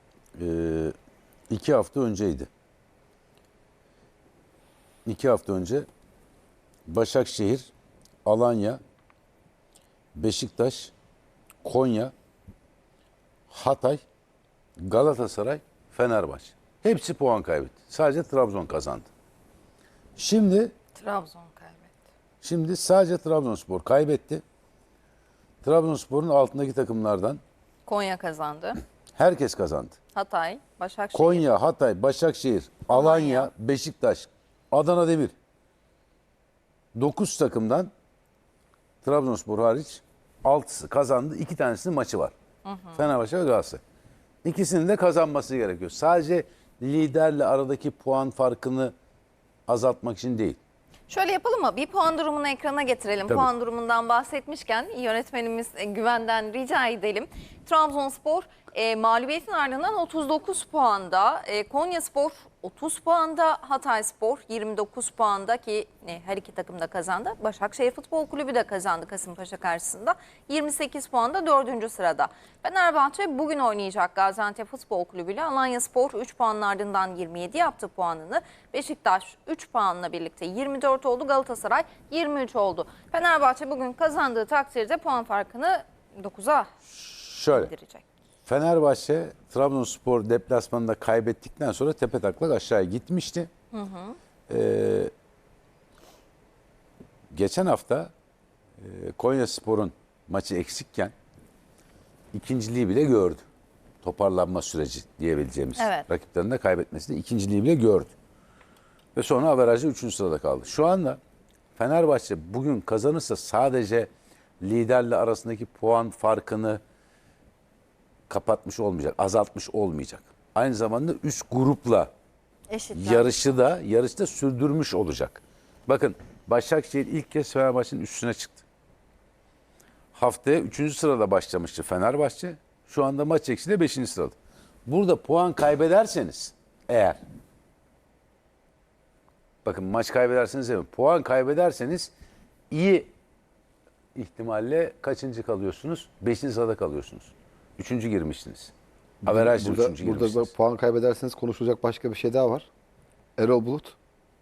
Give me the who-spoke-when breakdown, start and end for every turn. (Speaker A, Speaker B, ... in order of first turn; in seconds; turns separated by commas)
Speaker A: 0.4-0.9, Speaker A: 1.5-2.5, Speaker A: 5.1-5.9, Speaker A: 6.9-7.7, Speaker A: 8.2-8.8, Speaker A: 10.2-10.9, Speaker A: 11.6-12.1, Speaker A: 13.5-14.0, Speaker A: 14.8-19.1, Speaker A: 20.2-20.7, Speaker B: 21.0-21.9, Speaker A: 22.4-24.4, Speaker A: 25.6-27.4, Speaker B: 27.9-28.8, Speaker A: 29.2-30.0, Speaker B: 30.1-31.5, Speaker A: 31.1-35.3, Speaker B: 32.9-33.5, Speaker A: 37.0-37.9, Speaker A: 39.0-42.3, Speaker B: 42.6-43.0, Speaker A: 43.0-43.8, Speaker A: 44.4-48.9, Speaker A: 49.7-50.6, Speaker B: 51.1-86.7, Speaker A: 86.9-87.7, Speaker B: 87.5-88.0, Speaker A: 88.5-93.5, Speaker B: 93.7-94.2, Speaker A: 94.5-95.1, Speaker A: 97.3-98.1, Speaker A: 98.8-101.1, Speaker A: 102.3-103.5, Speaker A: 104.0-108.1, Speaker B: 105.8-106.1, Speaker A: 109.2-111.2, Speaker A: 111.8-114.1, Speaker A: 114.6-116.8, Speaker A: 118.3-122.1, Speaker B: 122.7-123.3, Speaker A: 122.9-128.7, Speaker A: 130.2-137.2, Speaker A: 139.7-142.1, Speaker A: 142.7-143.1, Speaker A: 144.2-148.7, Speaker C: 149.2-152.7, Speaker A: 149.2-150.5, Speaker C: 153.4-153.9